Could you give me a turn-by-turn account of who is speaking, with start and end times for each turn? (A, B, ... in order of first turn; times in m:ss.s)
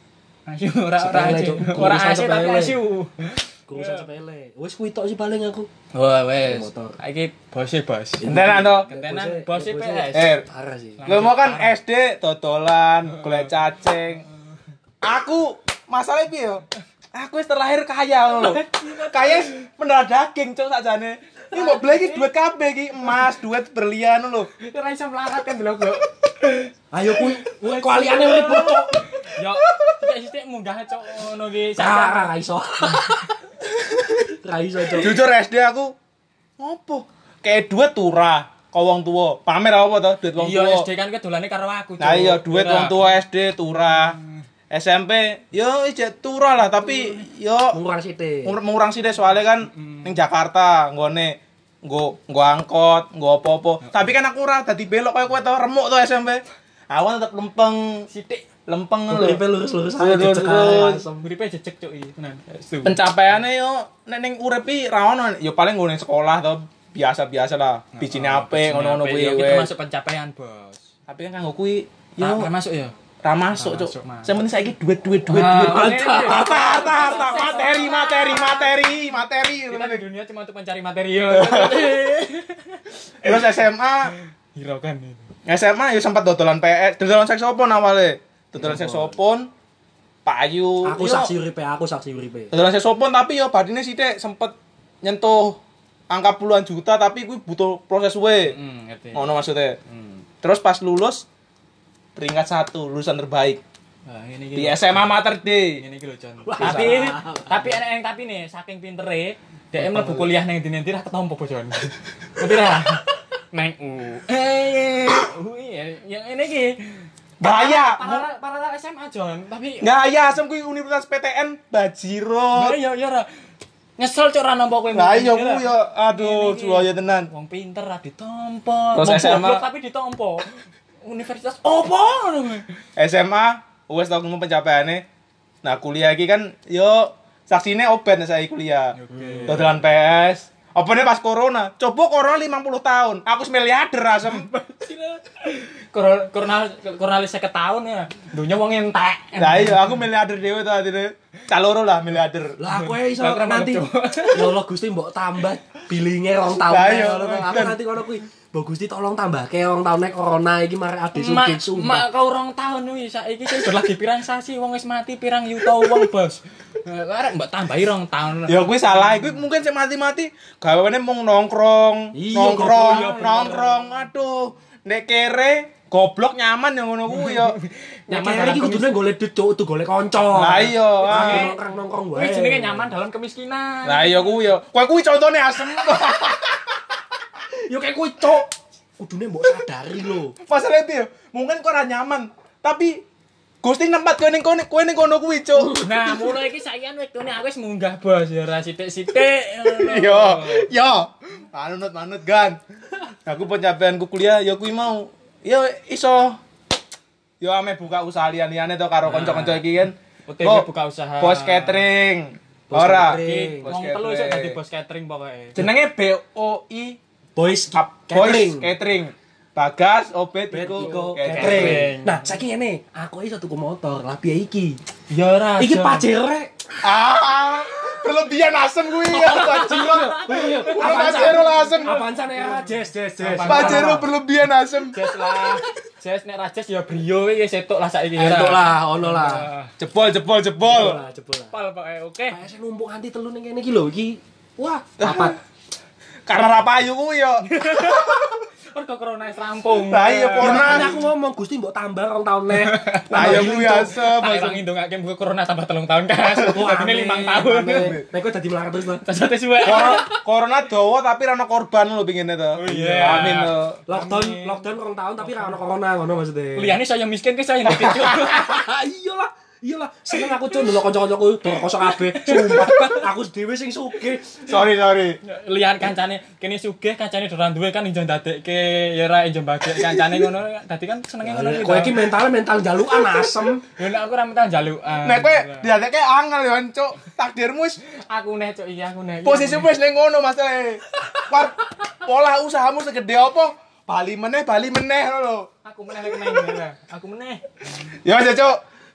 0:00.5-0:04.0 A
0:01.0-0:02.8 B
0:03.7-0:05.7 B
0:05.9-0:10.3 A
0:06.4-0:07.0 B
0:08.2-0:11.0 B
0:08.2-0:08.9 C
0:10.1-0:10.5 C
0:11.0-0:11.8 A
0:11.1-0:14.3 C
0:13.1-0:13.5 A
0:15.0-0:24.5 C
0:18.3-0:19.6 A
0:21.5-0:22.3 A
0:24.6-0:32.4 A
0:26.9-0:29.0 B
0:31.8-0:33.3 B
0:34.2-0:35.2 B
0:35.0-0:36.0 C
0:36.6-0:40.9 C
0:40.4-0:43.1 A
0:42.0-0:44.2 C
0:43.9-0:44.4 A
0:44.7-0:47.8 C
0:46.8-0:47.2 A
0:47.7-0:48.6 B
0:48.4-0:58.0 C
0:49.6-0:50.2 A
0:53.8-0:54.1 A
0:58.1-0:58.5 A
0:58.7-0:59.4 C
0:59.1-1:01.2 B
1:00.0-1:01.0 C
1:01.1-1:03.0 A
1:02.8-1:09.7 C
1:08.0-1:10.8 A
1:11.1-1:12.5 C
1:12.2-1:12.9 A
1:13.2-1:20.0 C
1:13.5-1:14.4 A
1:15.3-1:23.5 A
1:15.5-1:16.7 B
1:21.3-1:22.0 C
1:23.2-1:24.1 C
1:24.1-1:25.2 A
1:25.5-1:29.5 C
1:28.6-1:29.2 B
1:30.2-1:31.3 C
1:30.8-1:32.6 B
1:32.5-1:35.6 C
1:36.1-1:38.5 C
1:38.5-1:39.4 A
1:39.1-1:39.8 C
1:39.9-1:40.2 A
1:40.4-1:41.2 C
1:42.2-1:43.6 C
1:44.1-1:45.2 A
1:44.6-1:45.8 C
1:45.7-1:56.8 A
1:46.5-1:47.8 B
1:46.6-1:47.0 C
1:49.8-1:50.3 C
1:57.4-1:58.3 C
1:57.4-1:59.9 A
1:59.8-2:02.8 C
2:02.5-2:03.3 A
2:04.0-2:10.5 A
2:04.9-2:07.3 C
2:09.0-2:09.6 C
2:11.0-2:12.6 A
2:13.0-2:15.0 C
2:15.6-2:24.5 C
2:19.0-2:19.7 A
2:19.2-2:19.5 B
2:24.2-2:30.0 A
2:29.4-2:32.6 C
2:32.6-2:42.1 B
2:32.7-2:34.5 A
2:36.7-2:37.8 C
2:41.1-2:49.4 A
2:48.5-2:57.6 C
2:52.1-2:53.7 B
2:52.9-2:53.2 A
2:57.1-2:59.0 A
2:58.1-3:02.9 B
3:00.3-3:01.5 C
3:01.0-3:01.6 A
3:02.1-3:04.4 A
3:03.9-3:06.6 C
3:07.6-3:10.4 B
3:10.5-3:13.0 C
3:13.6-3:15.8 C
3:15.7-3:20.7 A
3:15.9-3:16.2 B
3:19.7-3:22.6 C
3:23.3-3:26.4 C
3:27.4-3:30.7 C
3:29.0-3:29.6 A
3:30.3-3:31.9 A
3:31.2-3:34.6 C
3:32.7-3:33.7 B
3:33.2-3:35.6 A
3:35.6-3:37.0 C
3:37.4-3:38.7 B
3:37.7-3:41.9 C
3:40.5-3:44.8 B
3:40.8-3:42.4 A
3:45.1-3:46.1 A
3:45.6-3:46.5 B
3:46.8-3:52.0 C
3:49.2-3:54.1 B
3:49.2-3:54.1 A
3:53.4-3:55.0 C
3:54.9-3:59.7 A
3:58.2-3:59.5 B
3:59.8-4:01.0 C
4:00.6-4:01.6 B
4:01.5-4:02.4 A
4:02.3-4:05.4 B
4:05.0-4:05.4 C
4:06.3-4:08.2 C
4:07.4-4:08.2 A
4:08.7-4:11.0 A
4:09.9-4:10.9 C
4:10.4-4:14.0 B
4:12.5-4:18.0 A
4:13.1-4:14.6 C
4:16.3-4:16.6 C
4:16.5-4:19.0 B
4:17.4-4:18.0 C
4:19.0-4:20.2 A
4:19.6-4:23.8 C
4:19.6-4:20.0 B
4:22.6-4:25.6 A
4:22.7-4:23.3 B
4:23.9-4:26.8 B
4:26.6-4:28.6 A
4:27.7-4:28.1 C
4:28.1-4:34.4 B
4:31.6-4:33.1 A
4:34.5-4:35.2 C
4:35.2-4:42.1 A
4:41.2-4:43.6 B
4:43.8-4:45.7 A
4:45.0-4:47.8 C
4:48.0-4:49.7 A
4:49.2-4:55.5 C
4:55.6-4:57.4 A
4:56.1-4:56.6 C
4:58.0-4:58.6 C